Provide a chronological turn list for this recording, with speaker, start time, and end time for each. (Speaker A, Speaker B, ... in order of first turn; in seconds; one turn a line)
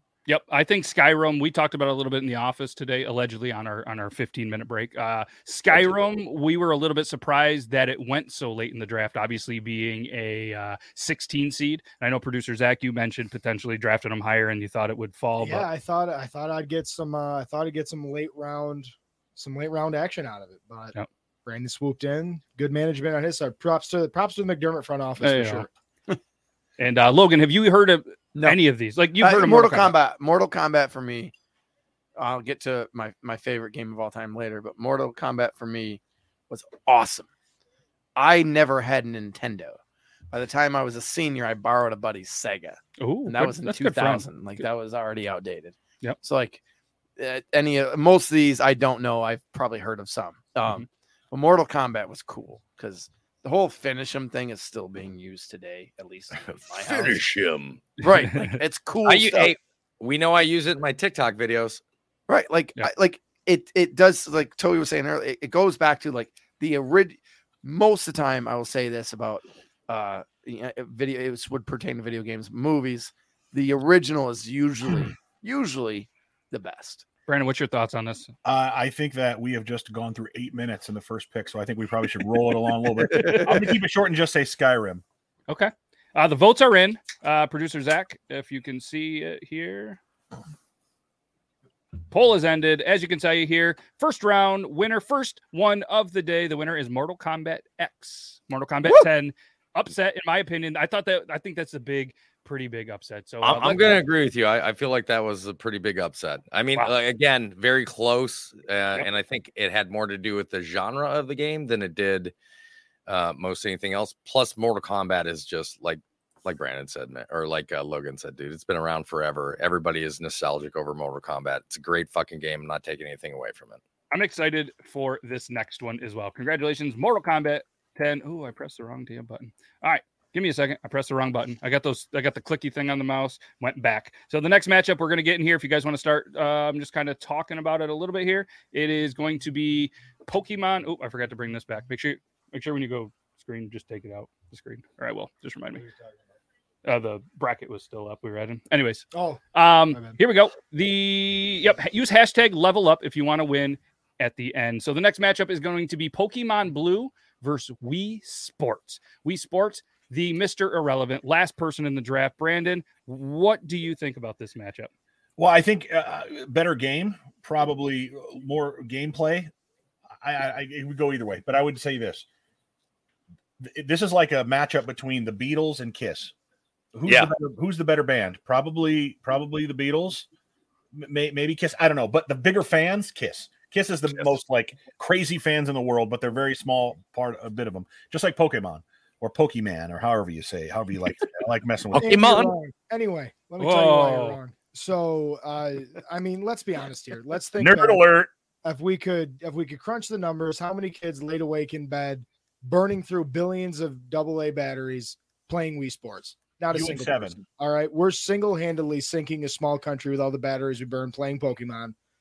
Speaker A: 0.2-15.7
Speaker B: 15.4-20.9
Speaker B: 21.4-25.7
Speaker A: 25.2-25.6
Speaker A: 26.8-29.9
Speaker C: 29.2-31.3
Speaker C: 32.1-37.3
Speaker C: 38.1-39.8
Speaker C: 40.3-46.6
Speaker A: 43.0-44.2
Speaker C: 47.2-57.2
Speaker D: 56.4-58.0
Speaker C: 58.0-59.5
Speaker A: 58.0-58.6
Speaker D: 59.0-61.8
Speaker C: 62.3-77.0
Speaker A: 77.3-78.3
Speaker E: 78.4-85.0
Speaker C: 83.1-83.5
Speaker A: 85.5-90.0
Speaker A: 92.1-104.0
Speaker D: 103.4-112.3
Speaker D: 113.1-123.8
Speaker A: 124.1-145.8
Speaker B: 145.7-146.2
Speaker A: 146.8-164.9
Speaker B: 149.1-150.2
Speaker E: 165.4-169.5
Speaker E: 170.2-172.2
Speaker E: 173.6-176.3
Speaker E: 176.9-180.2
Speaker D: 177.1-177.3
Speaker E: 180.9-192.3
Speaker D: 191.9-192.5
Speaker B: 192.0-198.0
Speaker A: 193.6-194.4
Speaker E: 197.6-198.3
Speaker B: 198.6-211.9
Speaker E: 206.7-207.4